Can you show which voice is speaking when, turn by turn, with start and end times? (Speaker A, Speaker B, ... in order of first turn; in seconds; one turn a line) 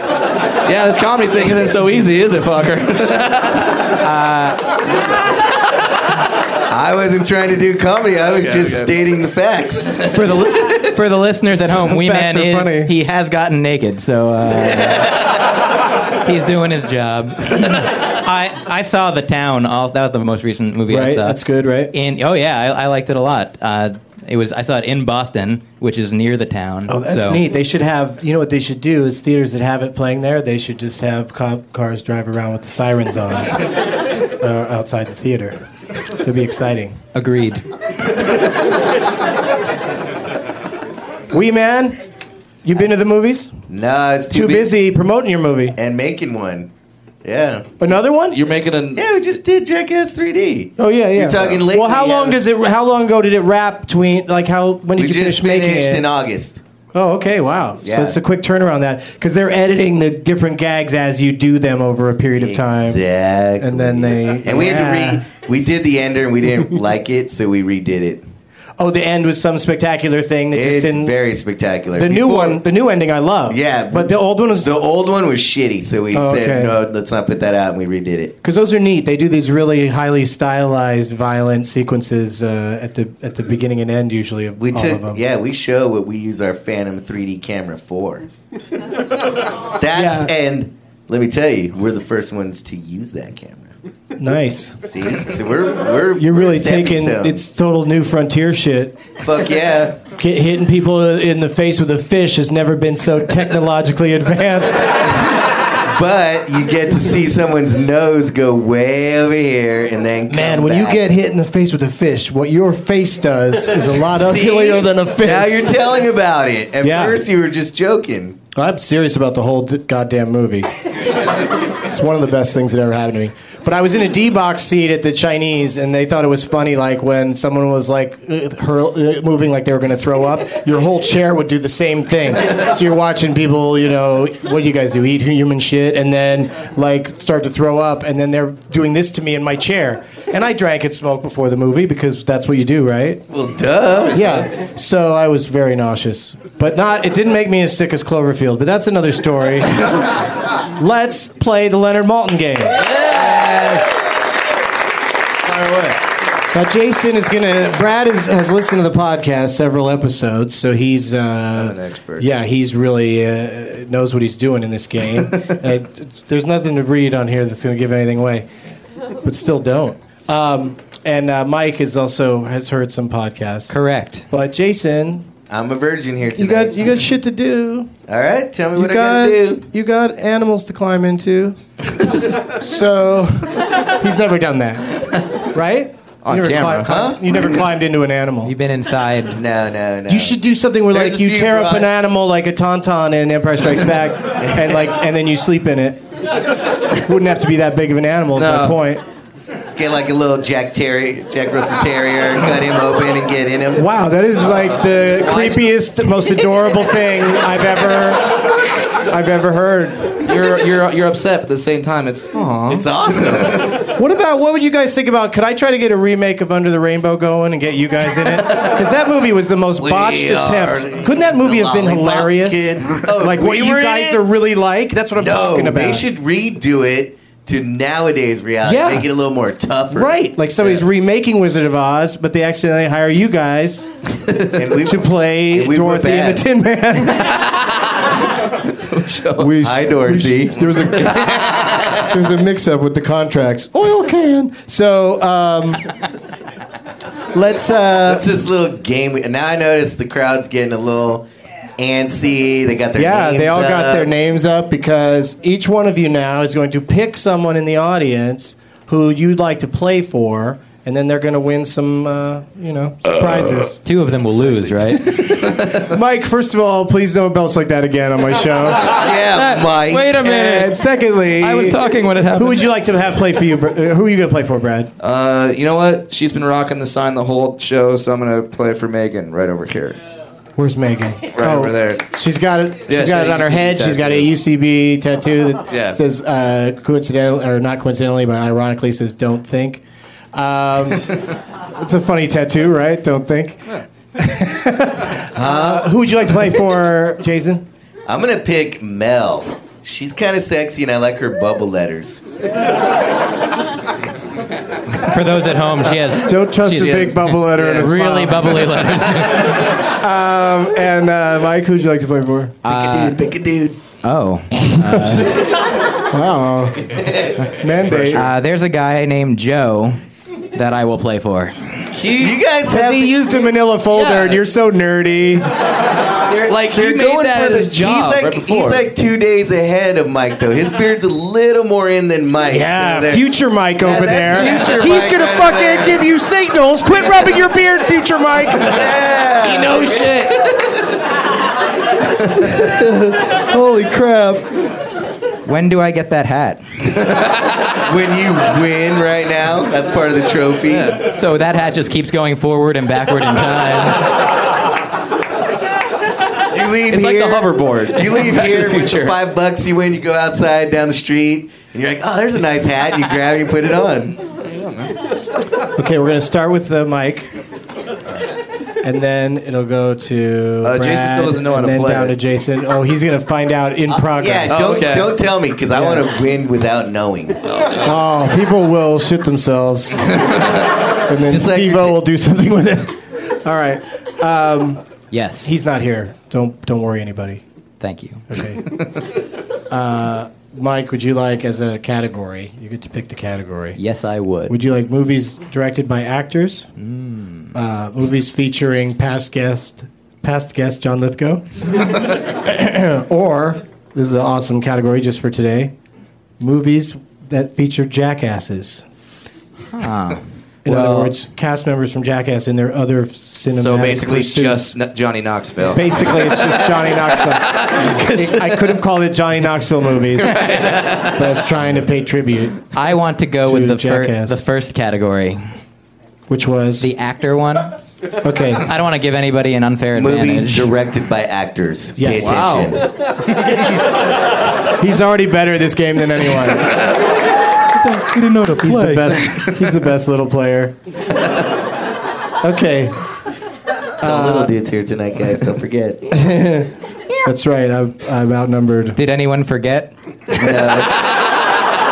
Speaker A: 0.6-3.9
Speaker B: 4.0-4.6
Speaker C: 6.7-10.1
Speaker A: 8.4-8.9
Speaker B: 10.1-15.2
Speaker D: 11.5-12.9
Speaker B: 16.2-21.4
Speaker D: 20.9-21.9
Speaker B: 21.9-27.4
Speaker D: 26.9-33.7
Speaker D: 34.4-35.6
Speaker D: 36.2-37.0
Speaker B: 37.1-37.6
Speaker D: 41.3-42.0
Speaker D: 42.6-43.5
Speaker C: 43.7-44.7
Speaker D: 44.3-45.8
Speaker C: 45.8-46.7
Speaker C: 47.2-47.7
Speaker D: 47.8-48.4
Speaker A: 48.3-49.0
Speaker C: 48.9-52.4
Speaker D: 50.8-56.0
Speaker C: 55.0-56.6
Speaker D: 56.9-63.0
Speaker C: 57.8-58.2
Speaker C: 62.3-68.2
Speaker D: 63.6-65.3
Speaker D: 68.8-71.1
Speaker C: 70.5-72.6
Speaker D: 71.9-74.7
Speaker C: 73.5-78.3
Speaker D: 76.1-76.8
Speaker D: 78.4-85.2
Speaker C: 84.6-88.3
Speaker C: 89.7-93.7
Speaker D: 89.9-90.3
Speaker D: 94.2-94.8
Speaker C: 94.8-97.4
Speaker D: 96.2-99.1
Speaker C: 99.2-100.0
Speaker D: 100.1-105.1
Speaker C: 105.8-111.0
Speaker D: 110.3-115.7
Speaker C: 114.1-118.4
Speaker D: 116.8-117.2
Speaker D: 118.5-120.7
Speaker D: 121.8-143.2
Speaker C: 143.3-144.5
Speaker D: 144.1-150.2
Speaker D: 150.8-152.9
Speaker A: 152.9-153.6
Speaker A: 155.4-156.0
Speaker D: 156.5-168.4
Speaker A: 161.5-162.2
Speaker D: 169.2-173.7
Speaker B: 173.7-174.2
Speaker D: 174.3-175.3
Speaker C: 175.5-176.8
Speaker D: 176.3-177.9
Speaker C: 178.1-179.6
Speaker D: 178.7-188.5
Speaker A: 186.2-187.0
Speaker C: 186.9-187.2
Speaker B: 188.4-189.4
Speaker C: 189.3-190.4
Speaker D: 190.1-196.0
Speaker C: 190.9-191.9
Speaker D: 197.0-199.0
Speaker A: 198.3-198.8
Speaker C: 199.8-203.8
Speaker D: 203.7-210.2
Speaker A: 205.2-205.6
Speaker A: 210.2-213.7
Speaker C: 212.7-213.7
Speaker D: 214.0-226.1
Speaker C: 219.8-224.2
Speaker C: 225.2-230.8
Speaker D: 228.6-229.1
Speaker D: 229.9-233.9
Speaker C: 234.5-236.4
Speaker D: 234.8-237.4
Speaker A: 237.2-238.1
Speaker A: 238.8-239.5
Speaker D: 239.4-246.0
Speaker C: 239.6-242.1
Speaker D: 247.3-248.3
Speaker C: 248.0-251.3
Speaker C: 251.8-254.1
Speaker D: 252.9-263.8
Speaker B: 263.8-265.1
Speaker D: 265.0-269.0
Speaker C: 268.9-270.1
Speaker B: 269.3-270.8
Speaker D: 270.1-271.8
Speaker B: 271.4-272.6
Speaker D: 272.3-274.9
Speaker A: 275.0-280.0
Speaker D: 280.6-289.8
Speaker A: 281.3-282.1
Speaker A: 282.9-284.3
Speaker A: 285.7-286.0
Speaker D: 290.3-297.6
Speaker C: 295.3-295.9
Speaker C: 298.1-302.2
Speaker B: 305.0-309.7
Speaker D: 306.2-308.9
Speaker A: 307.5-307.9
Speaker D: 309.6-312.6
Speaker B: 312.6-313.2
Speaker C: 312.7-313.8
Speaker B: 314.0-315.4
Speaker D: 314.7-315.4
Speaker D: 316.1-318.3
Speaker B: 318.1-320.0
Speaker B: 320.5-321.9
Speaker A: 321.9-322.4
Speaker C: 322.1-323.2
Speaker D: 322.7-325.5
Speaker C: 326.3-333.2
Speaker A: 326.4-328.9
Speaker D: 332.4-338.8
Speaker C: 333.8-336.1
Speaker C: 338.6-340.3
Speaker A: 338.9-340.4
Speaker D: 342.4-344.5
Speaker B: 345.4-346.6
Speaker A: 347.1-347.5
Speaker C: 347.8-351.0
Speaker A: 350.7-351.0
Speaker B: 351.1-354.2
Speaker C: 356.5-364.2
Speaker A: 356.9-359.1
Speaker A: 364.4-364.9
Speaker D: 365.8-367.3
Speaker D: 368.8-374.6
Speaker A: 370.6-372.1
Speaker C: 373.9-377.4
Speaker A: 374.5-375.1
Speaker D: 375.7-376.0
Speaker A: 377.5-377.8
Speaker D: 377.8-380.4
Speaker D: 381.1-384.8
Speaker C: 381.2-381.9
Speaker B: 385.1-385.5
Speaker D: 385.4-387.4
Speaker B: 387.8-388.2
Speaker D: 388.3-388.9
Speaker D: 389.7-393.8
Speaker B: 393.8-394.5
Speaker D: 394.5-396.7
Speaker B: 396.8-397.5
Speaker D: 397.5-405.7
Speaker D: 406.4-408.8
Speaker B: 409.7-411.1
Speaker D: 410.6-414.7
Speaker A: 413.5-418.8
Speaker D: 415.6-422.6
Speaker A: 420.2-421.2
Speaker B: 422.7-425.4
Speaker D: 423.4-424.4
Speaker D: 426.3-426.9
Speaker B: 426.8-427.7
Speaker D: 428.2-428.6
Speaker B: 428.6-430.7
Speaker C: 429.9-432.9
Speaker D: 432.0-432.5
Speaker A: 432.2-433.6
Speaker D: 434.8-436.9
Speaker B: 437.8-439.1
Speaker D: 438.6-440.7
Speaker D: 442.4-443.0
Speaker C: 444.0-446.1
Speaker D: 444.0-444.5
Speaker D: 446.1-446.7
Speaker D: 447.2-449.0
Speaker B: 448.9-449.9
Speaker A: 450.4-450.9
Speaker C: 450.5-450.8